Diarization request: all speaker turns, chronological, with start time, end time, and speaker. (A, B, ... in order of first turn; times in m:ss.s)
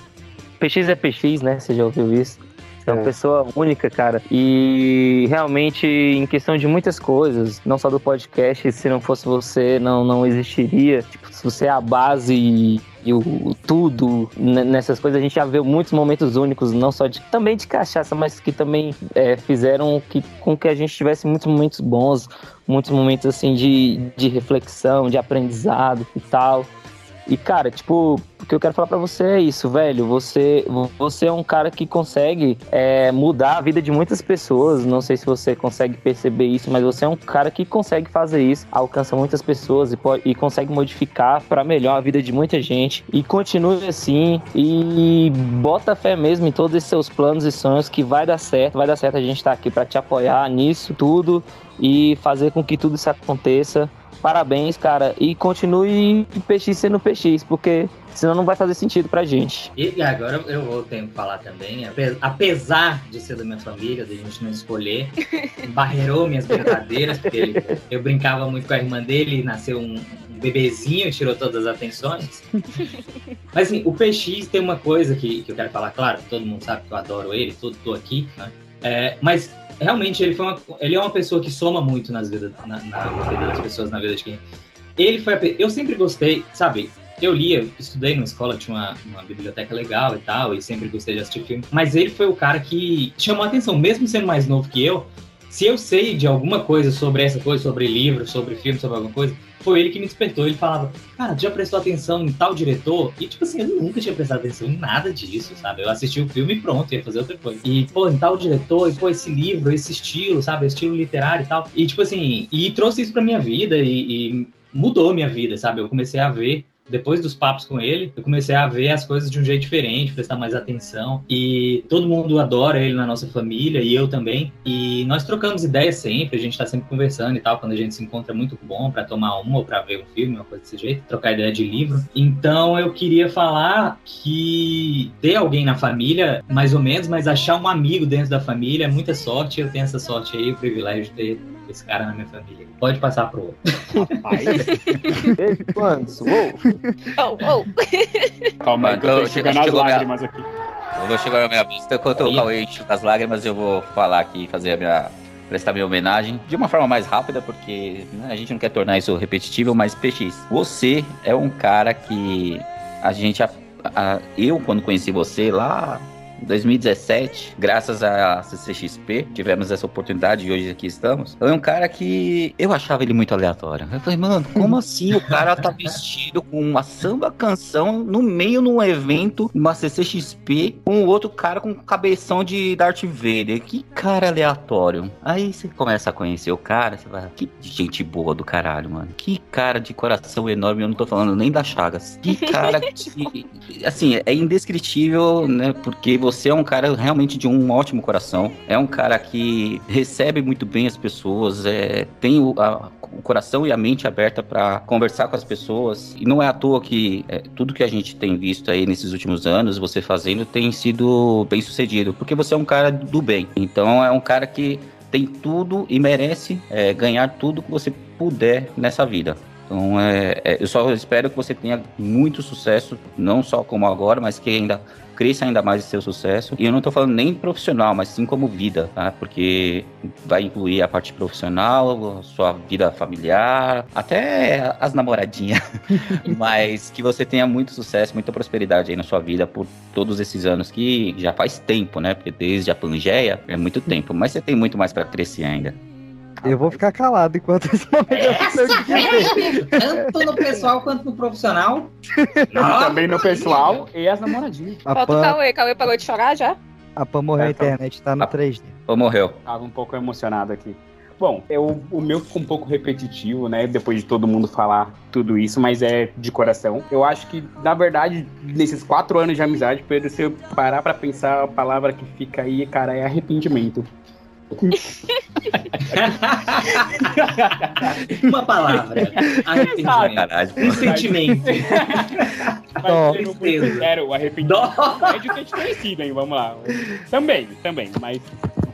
0:00.6-0:26.7 A
0:27.3-0:59.7 A
0:59.8-1:12.4 B
1:13.5-1:24.4 B
1:25.0-2:24.1 B
2:24.2-2:24.8 C
2:25.4-2:26.6 A
2:27.1-2:28.3 D
2:28.6-2:30.5 C
2:28.8-2:30.1 E
2:31.0-4:05.8 E
2:32.2-2:32.4 B
3:12.4-3:12.8 D
4:06.4-4:10.1 F
4:08.1-4:11.9 B
4:12.2-4:12.6 F
4:12.5-4:13.9 B
4:12.6-4:14.8 C
4:14.8-4:15.4 F
4:14.9-4:16.6 D
4:17.0-4:18.7 F
4:17.4-4:17.7 C
4:18.9-4:19.4 E
4:19.4-4:33.9 C
4:35.9-4:37.1 B
4:37.0-4:38.2 C
4:37.8-4:45.3 B
4:39.6-4:42.2 C
4:40.0-4:40.9 E
4:42.8-4:48.3 C
4:42.8-4:43.2 F